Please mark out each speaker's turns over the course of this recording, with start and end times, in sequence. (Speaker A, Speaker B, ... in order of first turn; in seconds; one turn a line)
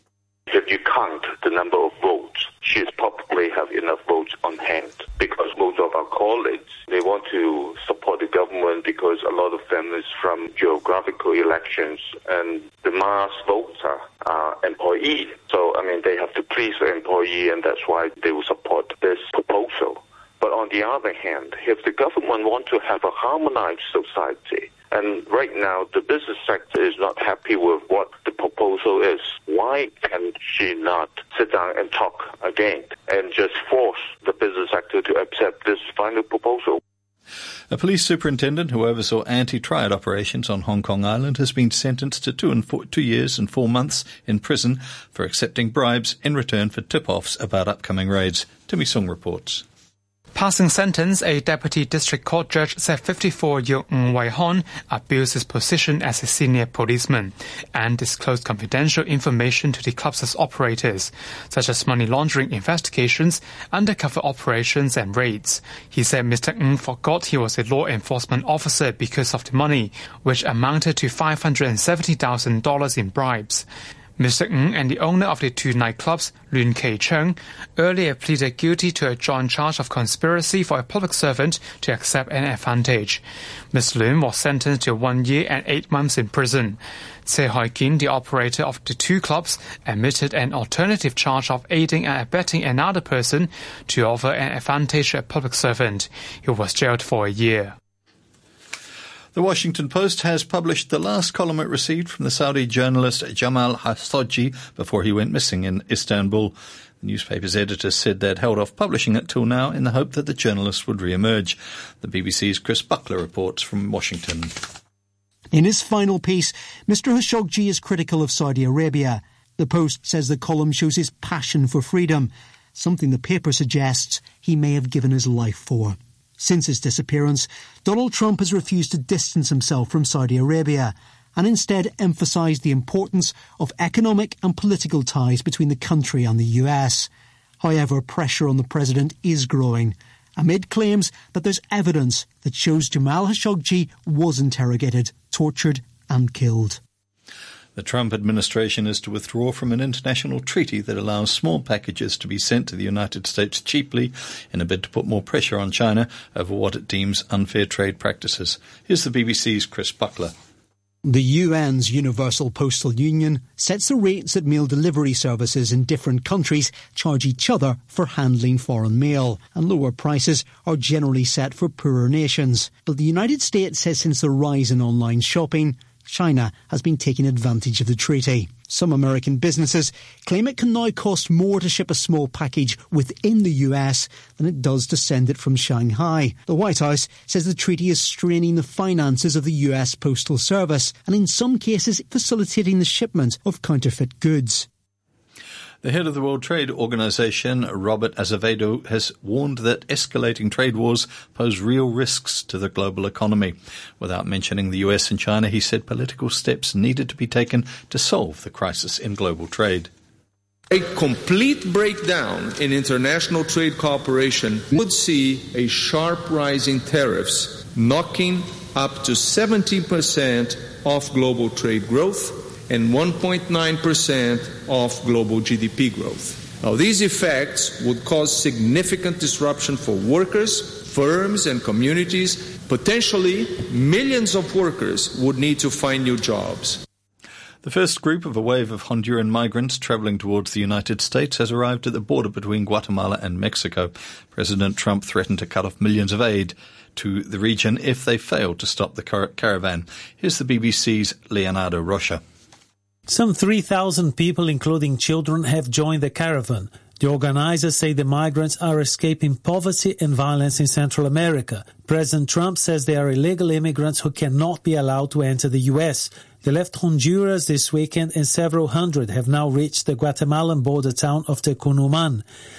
Speaker A: 0.5-36.8
Speaker B: 37.7-49.6
Speaker C: 50.4-73.7
Speaker C: 74.2-83.2
Speaker C: 83.7-97.8
Speaker B: 99.3-114.5
Speaker D: 115.5-137.1
Speaker D: 137.6-146.8
Speaker B: 147.8-160.3
Speaker D: 161.1-194.7
Speaker B: 195.8-209.9
Speaker E: 210.7-236.8
Speaker B: 237.6-252.2
Speaker F: 253.1-272.2